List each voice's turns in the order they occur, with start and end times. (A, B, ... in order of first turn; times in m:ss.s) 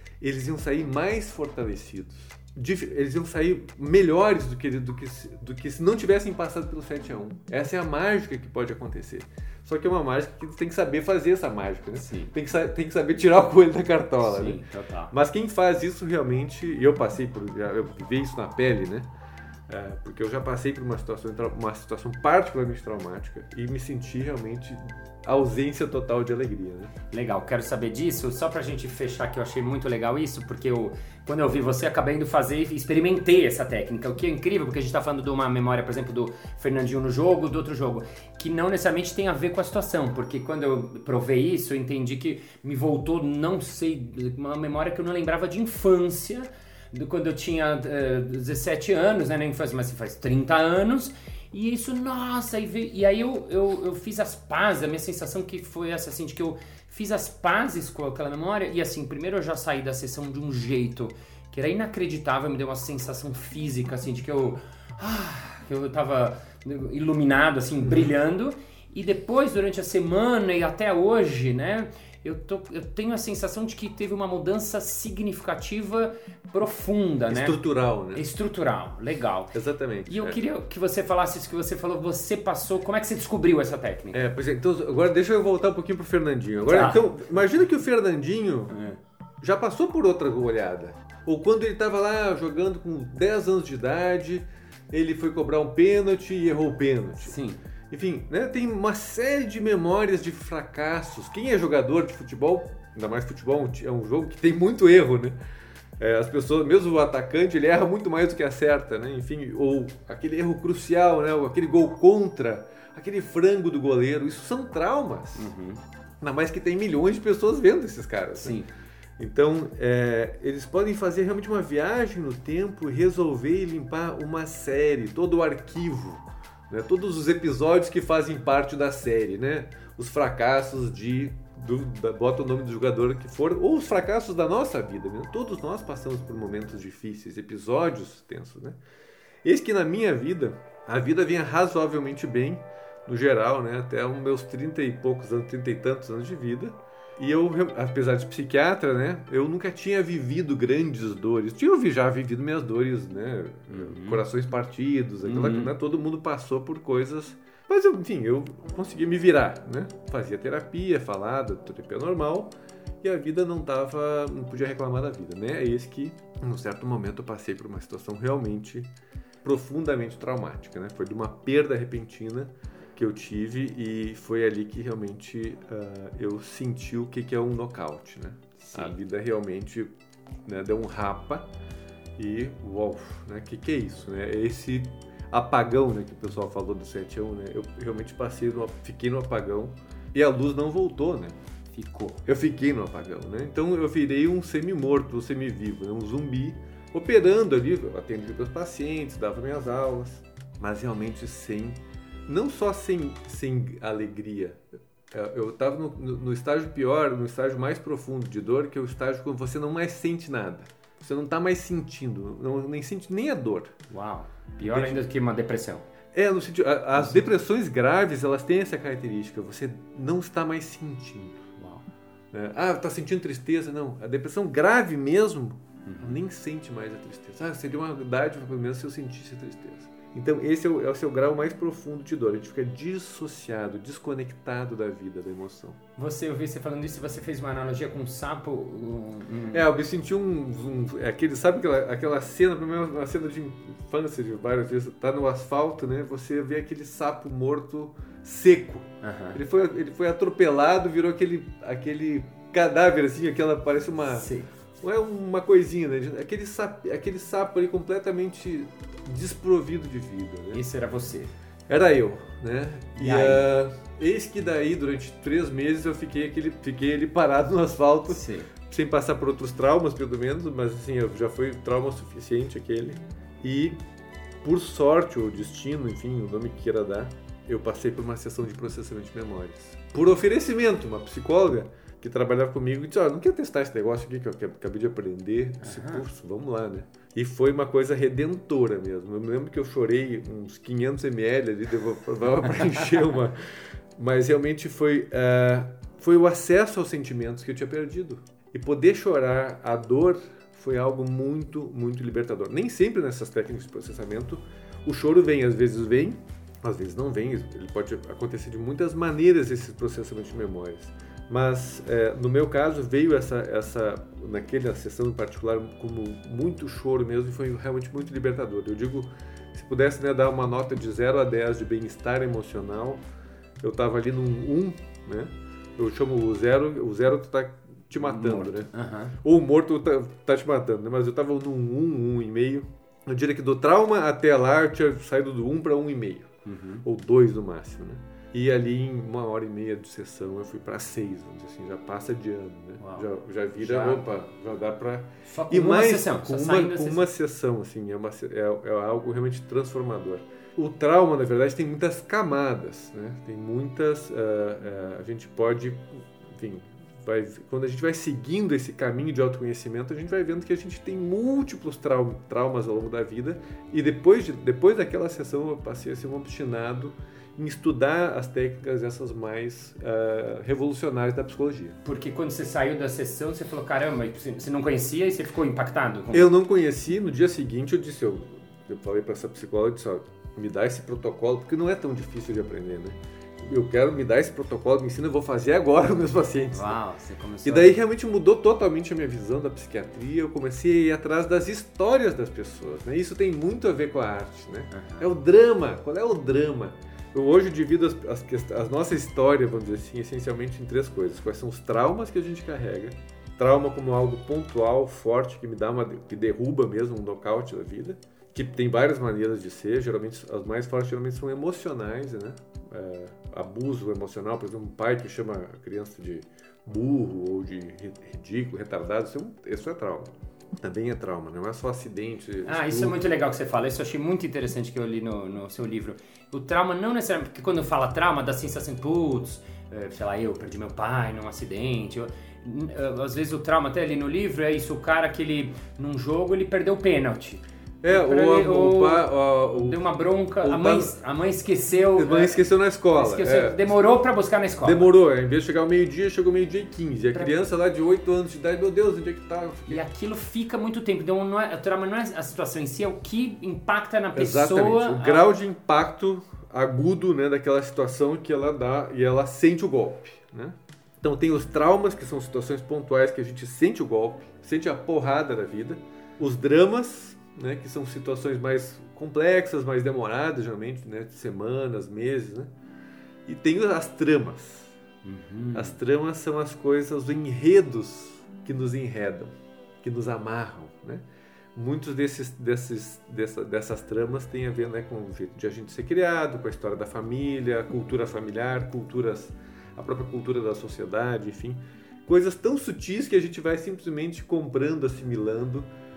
0:00.2-0:19.1 A
0:12.0-0:12.3 B
0:14.2-0:15.1 B
0:19.7-0:26.9 A
0:27.1-1:17.6 B
1:17.3-1:18.2 A
1:18.1-1:19.6 B
1:19.5-1:20.4 A
1:20.1-1:24.2 B
1:24.1-1:28.8 A
1:26.6-1:27.5 B
1:28.7-1:29.0 B
1:29.4-1:37.4 A
1:37.2-1:37.6 B
1:37.9-1:45.4 A
1:46.0-1:55.5 A
1:55.4-1:55.8 B
1:56.2-1:58.6 A
1:58.4-1:58.7 B
1:59.2-2:18.8 A
2:19.4-2:48.9 A
2:33.7-2:34.2 B
2:35.2-2:35.7 B
2:49.4-2:59.9 A
2:58.6-2:58.9 B
3:00.4-3:01.5 A
3:02.2-3:11.4 A
3:11.7-3:12.2 B
3:12.3-3:33.7 A
3:33.9-3:35.8 B
3:34.6-3:35.0 A
3:36.1-3:41.5 A
3:41.6-3:41.8 B
3:42.3-3:55.8 A
3:45.9-3:46.2 B
3:56.0-3:59.6 B
3:59.5-4:14.3 A
4:09.0-4:09.4 B
4:14.0-4:14.5 B
4:14.8-4:20.6 A
4:20.5-4:21.3 B
4:21.7-4:33.8 A
4:23.0-4:23.5 B
4:28.1-4:28.5 B
4:34.4-4:53.4 A
4:45.6-4:46.0 B
4:54.0-5:23.0 A
5:23.6-5:28.7 A
5:28.0-5:29.1 B
5:29.2-5:36.3 A
5:36.4-5:36.8 B
5:36.8-6:11.8 A
5:42.8-5:43.1 B
5:43.6-5:44.0 B
5:45.3-5:47.1 B
6:11.8-6:16.3 B
6:16.1-6:26.8 A
6:26.5-6:27.8 B
6:27.4-7:03.0 A
6:34.7-6:35.1 B
7:02.4-7:22.4 B
7:17.8-7:19.8 A
7:20.4-7:20.9 A
7:21.9-7:23.8 A
7:22.9-7:24.9 B
7:24.6-7:29.8 A
7:29.7-7:35.3 B
7:34.1-7:52.5 A
7:53.3-7:54.8 A
7:55.0-7:55.8 B
7:55.5-8:15.7 A